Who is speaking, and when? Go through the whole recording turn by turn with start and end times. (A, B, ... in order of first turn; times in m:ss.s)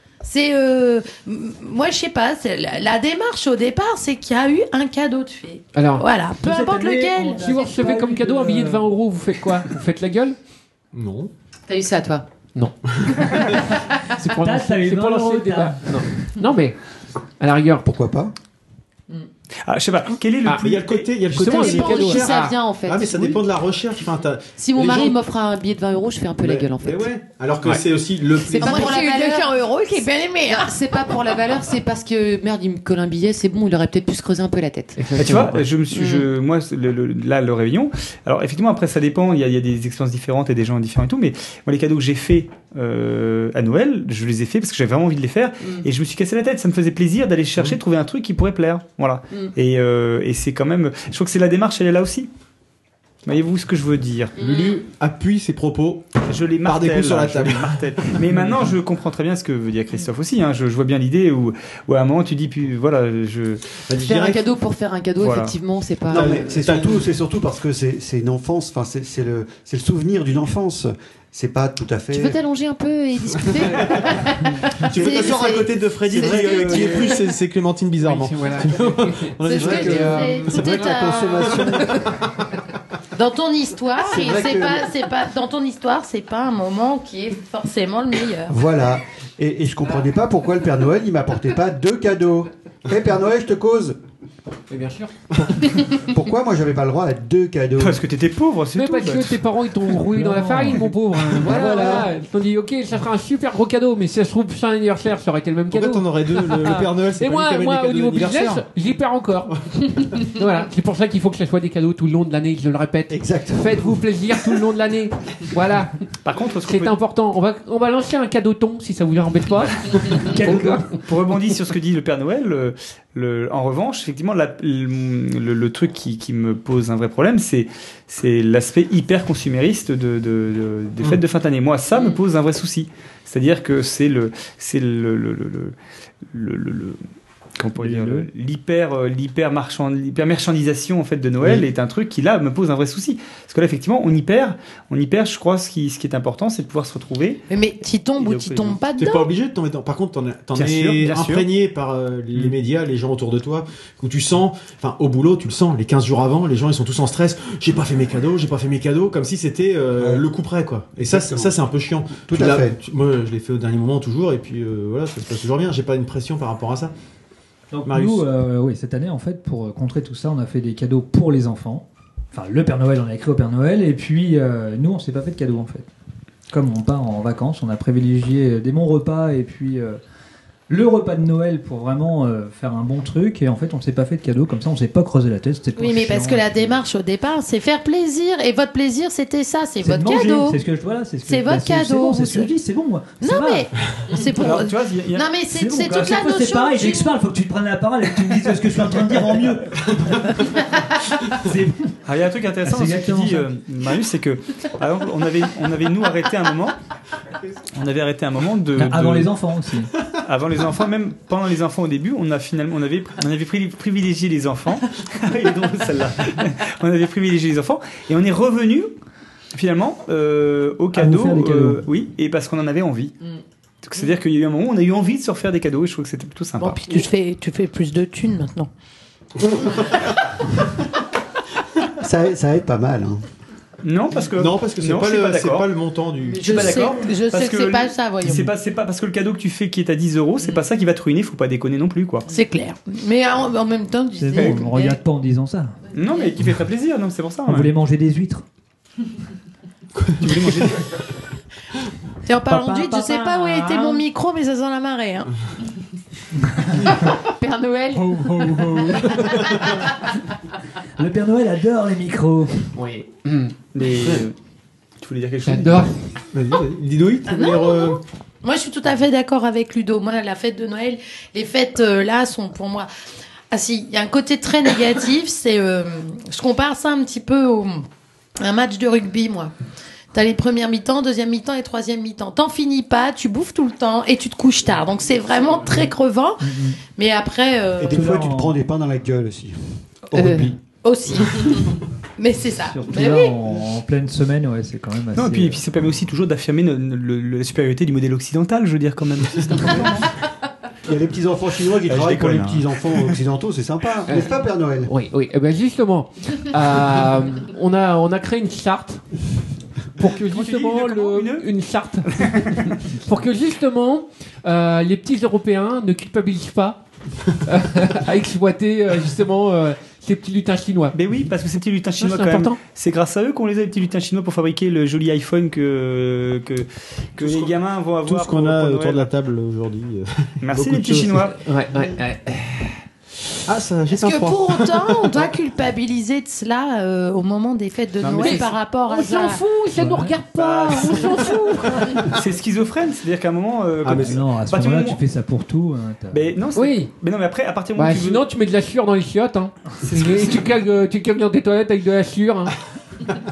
0:00.2-0:07.5 A
0:05.7-0:06.1 B
0:06.4-0:08.9 C
0:07.4-0:10.4 B
0:10.9-0:11.3 D
0:11.7-0:12.3 E
0:12.6-0:16.8 B
0:14.4-0:15.9 C
0:17.4-0:17.8 B
0:17.8-0:18.3 F
0:19.7-0:21.5 G
0:20.6-0:25.2 D
0:21.3-0:22.5 B
0:21.5-0:23.4 E
0:21.6-0:22.5 A
0:24.6-0:27.1 E
0:26.4-0:29.0 D
0:28.4-0:29.7 E
0:28.6-0:30.8 A
0:30.5-0:35.0 E
0:35.0-0:35.7 B
0:35.2-0:52.3 G
0:35.9-0:36.2 A
0:53.3-0:54.3 G
0:54.4-0:54.8 A
0:54.4-0:58.4 D
0:56.3-1:03.8 G
1:03.9-1:04.4 D
1:04.0-1:06.8 E
1:05.2-1:05.5 G
1:06.1-1:12.4 F
1:06.1-1:07.0 D
1:12.1-1:14.5 E
1:14.8-1:17.2 A
1:14.8-1:20.4 D
1:14.9-1:17.2 F
1:18.0-1:21.0 B
1:19.4-1:22.0 A
1:19.5-1:22.2 F
1:23.1-1:28.6 A
1:24.0-1:24.9 F
1:28.5-1:34.0 F
1:34.7-1:35.1 B
1:35.3-1:38.0 F
1:37.8-1:39.4 G
1:38.8-1:56.0 B
1:40.1-1:42.0 C
1:45.7-1:48.6 D
1:53.1-1:54.0 F
1:56.2-1:57.0 G
1:56.7-2:01.0 B
2:00.0-2:15.8 G
2:16.3-2:17.0 G
2:17.6-2:27.4 G
2:17.8-2:18.3 C
2:21.4-2:21.7 D
2:27.5-2:29.3 A
2:28.2-2:28.8 G
2:29.0-2:46.9 D
2:30.6-2:31.5 G
2:42.3-2:42.8 F
2:47.7-2:55.9 C
2:47.9-2:48.3 D
2:56.5-3:00.0 C
3:00.7-3:06.8 C
3:05.8-3:10.6 A
3:09.8-3:13.7 C
3:11.2-3:12.5 A
3:13.2-3:17.2 A
3:14.3-3:15.3 G
3:15.5-3:20.6 C
3:21.3-3:21.9 C
3:22.0-3:26.8 G
3:22.6-3:23.5 C
3:27.7-3:29.3 G
3:28.8-3:29.9 C
3:30.2-3:38.9 G
3:39.5-3:43.1 G
3:41.0-3:41.8 C
3:43.8-3:47.0 G
3:46.6-3:48.7 A
3:52.0-3:53.2 F
3:53.8-3:55.7 G
3:54.2-3:56.9 D
3:56.3-3:58.5 A
3:56.4-4:02.3 G
4:02.3-4:05.0 A
4:04.2-4:05.8 C
4:05.9-4:07.7 G
4:07.5-4:08.4 C
4:10.0-4:10.8 D
4:10.2-4:11.0 G
4:12.3-4:15.3 A
4:12.5-4:14.0 C
4:17.2-4:18.5 E
4:18.1-4:19.4 D
4:21.0-4:22.7 C
4:22.8-4:23.5 B
4:23.7-4:24.4 G
4:25.0-4:25.9 G
4:25.4-4:25.9 B
4:26.3-4:28.0 D
4:27.3-4:32.9 A
4:33.5-4:37.9 A
4:38.4-4:39.5 A
4:40.1-4:48.0 A
4:46.4-4:46.8 C
4:47.8-4:50.6 F
4:47.9-4:48.6 C
4:50.1-4:50.5 E
4:50.8-4:53.4 A
4:52.7-4:55.6 C
4:55.2-5:00.1 G
5:00.9-5:04.9 F
5:01.9-5:03.2 G
5:04.1-5:09.0 B
5:10.0-5:16.8 B
5:10.3-5:11.5 G
5:12.1-5:12.8 G
5:17.5-5:21.0 B
5:20.9-5:29.1 G
5:22.0-5:22.6 B
5:27.2-5:31.3 D
5:30.4-5:31.4 G
5:31.5-5:32.4 B
5:33.4-5:35.3 D
5:33.9-5:39.4 A
5:38.0-5:38.4 G
5:38.2-5:42.2 B
5:39.8-5:40.2 C
5:40.4-5:45.0 G
5:43.8-5:44.2 D
5:43.9-5:46.4 C
5:46.1-5:48.2 G
5:46.6-5:46.9 B
5:47.8-5:52.6 B